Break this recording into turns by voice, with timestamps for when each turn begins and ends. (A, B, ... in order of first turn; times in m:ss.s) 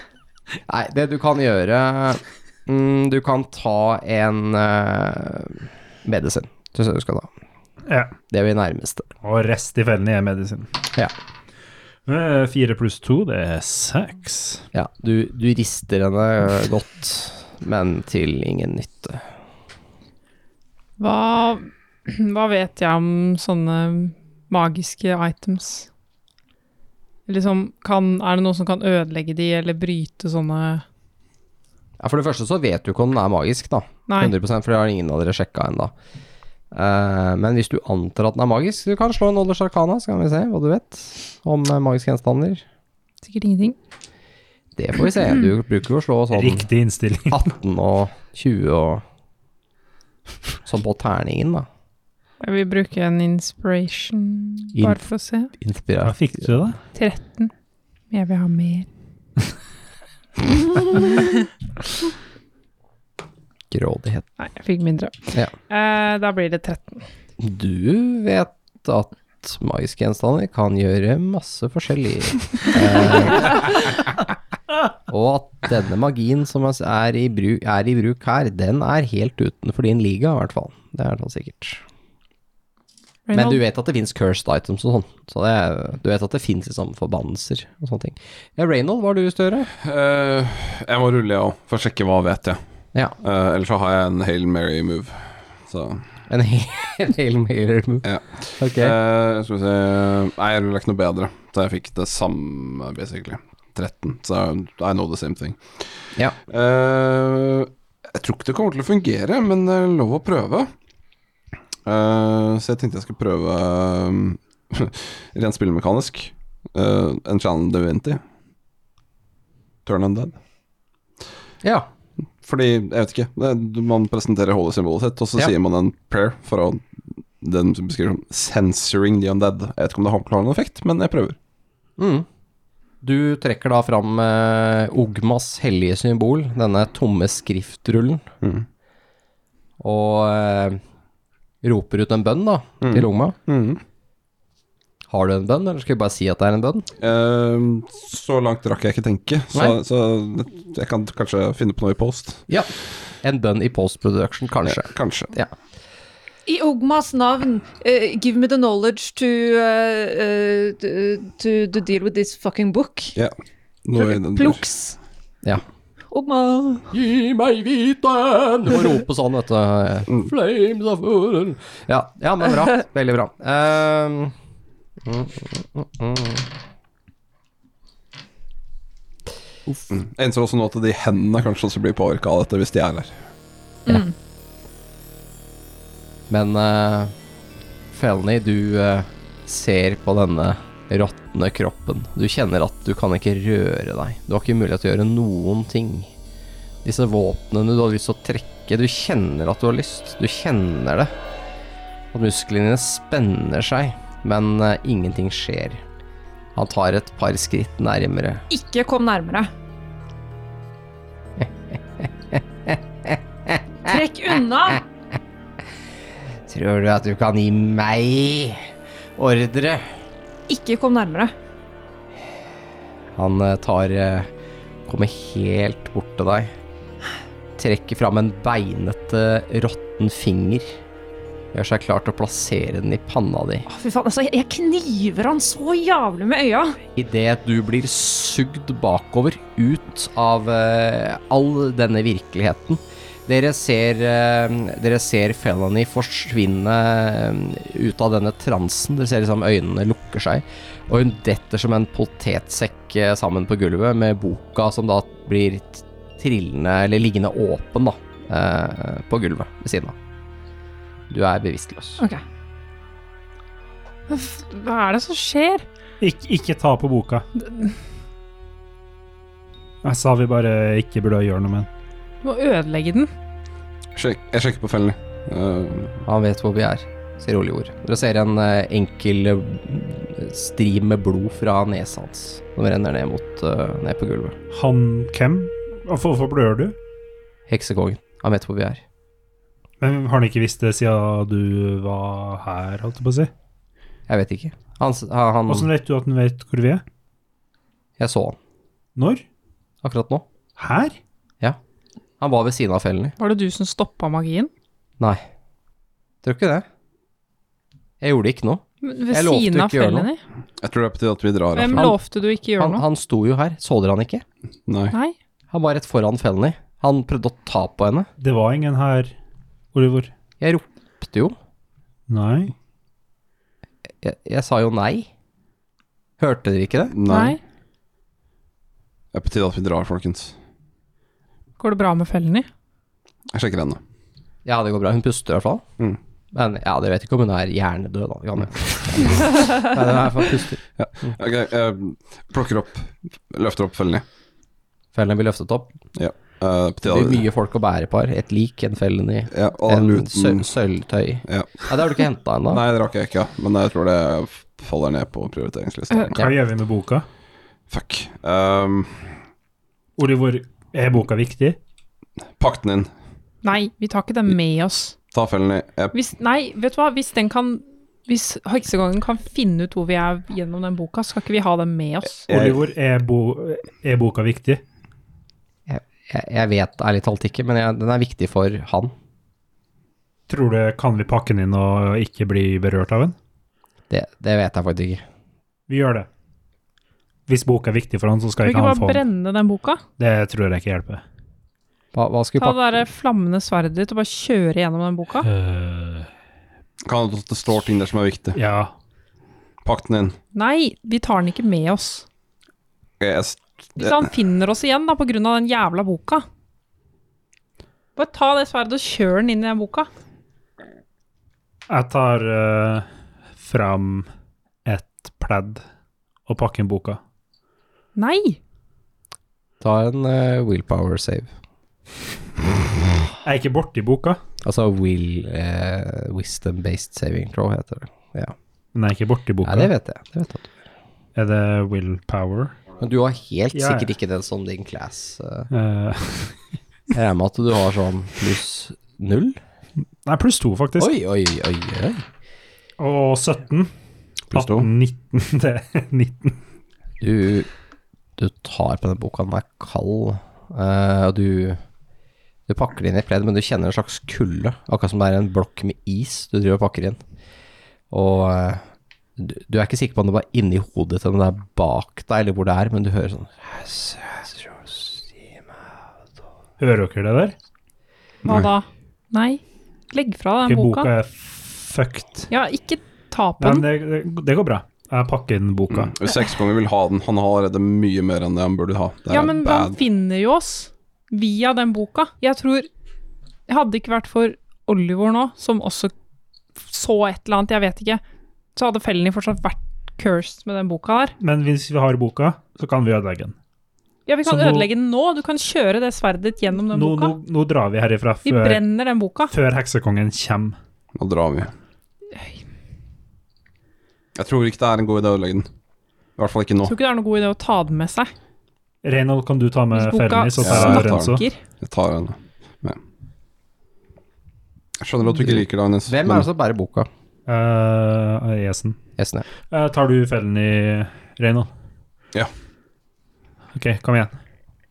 0:00.7-0:07.3 A
0:07.9-0:08.2 B
0:08.3-0:09.1 A
0:09.2-0:10.7 B
0:12.1-0:14.6 B
0:14.7-0:19.2 A
0:21.0-0:25.9 C
0:27.3-0:30.8 C
0:32.0-0:35.9 A
0:34.1-0:34.3 C
0:36.7-0:42.6 A
0:43.2-0:43.8 C
0:44.8-0:46.7 A
0:46.3-0:47.4 B
0:47.3-0:49.0 A
0:50.6-0:51.7 A
0:52.4-0:55.5 C
0:54.8-0:55.0 A
0:55.6-0:56.5 A
0:56.0-0:56.8 B
0:56.9-0:57.5 C
0:58.1-0:58.9 C
1:03.7-1:04.3 A
1:04.4-1:07.1 C
1:07.4-1:13.7 A
1:15.1-1:21.8 A
1:23.3-1:23.6 C
1:23.3-1:29.7 A
1:29.8-1:32.6 D
1:33.2-1:36.0 D
1:36.3-1:38.1 A
1:38.0-1:45.8 D
1:38.6-1:39.0 A
1:46.5-1:50.7 D
1:51.8-1:58.2 D
1:59.8-2:00.4 D
2:01.6-2:01.9 A
2:02.4-2:06.9 D
2:07.4-2:11.4 D
2:12.0-2:12.3 A
2:13.0-2:18.3 A
2:19.8-2:20.8 A
2:21.6-2:23.4 A
2:22.8-2:23.8 D
2:25.1-2:26.9 A
2:27.0-2:32.4 D
2:32.5-2:35.5 A
2:34.7-2:35.3 D
2:36.5-2:43.2 E
2:43.2-2:44.6 D
2:44.0-2:45.0 E
2:46.1-2:46.9 E
2:46.9-2:54.4 A
2:55.0-2:56.5 A
2:59.8-3:03.2 D
3:06.3-3:07.1 A
3:07.9-3:16.1 A
3:16.8-3:21.1 A
3:22.1-3:25.8 A
3:26.6-3:28.4 A
3:28.5-3:29.5 E
3:31.4-3:34.0 A
3:33.8-3:34.8 E
3:36.5-3:39.9 A
3:40.5-3:41.3 E
3:43.2-3:44.3 A
3:44.9-3:46.5 A
3:47.6-3:50.7 A
3:51.5-3:53.7 A
3:53.7-3:56.8 E
3:57.0-4:20.0 A
4:21.1-4:22.0 A
4:24.1-4:25.7 C
4:26.0-4:27.2 B
4:27.4-4:27.7 C
4:29.8-4:31.7 B
4:32.2-4:33.1 C
4:34.0-4:36.0 D
4:36.1-4:44.4 A
4:44.5-4:46.8 B
4:47.5-4:48.8 A
4:49.8-4:53.3 B
4:54.1-4:55.7 A
4:55.5-4:56.8 B
4:58.0-4:58.4 A
4:59.0-4:59.2 B
4:59.8-5:00.2 A
5:00.6-5:01.0 B
5:02.2-5:03.2 A
5:03.2-5:04.5 C
5:05.0-5:05.2 A
5:06.2-5:06.7 A
5:08.0-5:10.1 A
5:08.8-5:10.2 C
5:10.6-5:11.9 D
5:11.5-5:12.8 C
5:12.6-5:14.2 A
5:14.7-5:15.0 D
5:15.5-5:18.1 A
5:18.2-5:19.1 B
5:19.7-5:20.1 B
5:20.4-5:21.4 A
5:22.1-5:22.5 B
5:24.0-5:25.1 A
5:26.2-5:26.9 A
5:26.9-5:27.4 D
5:27.0-5:27.4 C
5:29.1-5:30.4 D
5:31.6-5:32.5 C
5:33.3-5:33.8 D
5:34.4-5:35.6 A
5:36.3-5:40.6 A
5:40.8-5:44.0 D
5:44.9-5:45.8 A
5:46.0-5:47.2 D
5:46.9-5:52.6 A
5:49.3-5:50.5 D
5:51.3-5:51.7 D
5:52.5-5:56.2 D
5:56.0-5:57.1 B
5:57.7-5:59.1 D
6:00.0-6:01.6 B
6:02.4-6:02.9 D
6:03.4-6:05.0 C
6:05.1-6:05.9 D
6:05.9-6:12.3 C
6:12.3-6:12.6 D
6:12.3-6:14.6 B
6:15.7-6:18.9 A
6:20.3-6:23.2 B
6:23.9-6:25.0 A
6:25.7-6:26.1 B
6:27.3-6:29.0 B
6:28.4-6:29.8 C
6:30.0-6:31.0 B
6:31.9-6:32.6 A
6:32.4-6:35.3 C
6:35.2-6:36.1 B
6:36.8-6:38.4 D
6:38.4-6:38.7 B
6:39.6-6:40.2 D
6:40.3-6:42.1 C
6:43.0-6:44.0 D
6:43.8-6:46.2 C
6:48.0-6:49.9 C
6:51.7-6:52.8 B
6:53.4-6:54.1 B
6:54.7-6:55.6 B
6:56.3-6:57.0 B
6:58.0-6:58.4 C
6:59.6-7:01.3 A
7:03.2-7:04.2 B
7:04.4-7:08.3 A
7:08.7-7:09.7 B
7:09.4-7:10.5 A
7:11.2-7:12.6 B
7:12.8-7:15.5 A
7:13.5-7:13.9 B
7:15.5-7:16.4 B
7:16.9-7:19.4 A
7:20.1-7:20.9 B
7:20.8-7:22.0 A
7:22.8-7:23.7 B
7:24.3-7:24.7 D
7:24.3-7:26.4 B
7:27.0-7:27.5 A
7:28.2-7:31.6 A
7:32.5-7:37.0 A
7:37.9-7:38.6 A
7:39.2-7:45.1 A
7:46.6-7:47.4 B
7:48.2-7:50.9 C
7:50.5-7:52.3 B
7:52.3-7:53.7 C
7:53.4-7:55.9 B
7:55.7-7:59.8 D
7:59.1-8:02.7 C
8:03.5-8:05.9 C
8:06.6-8:08.0 C
8:08.6-8:11.2 C
8:11.2-8:13.4 B
8:14.1-8:17.2 C
8:14.2-8:14.7 B
8:16.7-8:18.6 B
8:18.2-8:19.3 C
8:19.3-8:20.6 B
8:21.0-8:21.5 D
8:24.2-8:25.5 D
8:26.2-8:26.7 D
8:26.6-8:28.1 C
8:28.8-8:31.2 B
8:29.7-8:31.4 C
8:30.4-8:32.8 D
8:34.8-8:36.3 D
8:35.3-8:36.9 A
8:37.3-8:38.8 B
8:39.0-8:39.2 A
8:39.5-8:41.5 B
8:43.6-8:44.2 B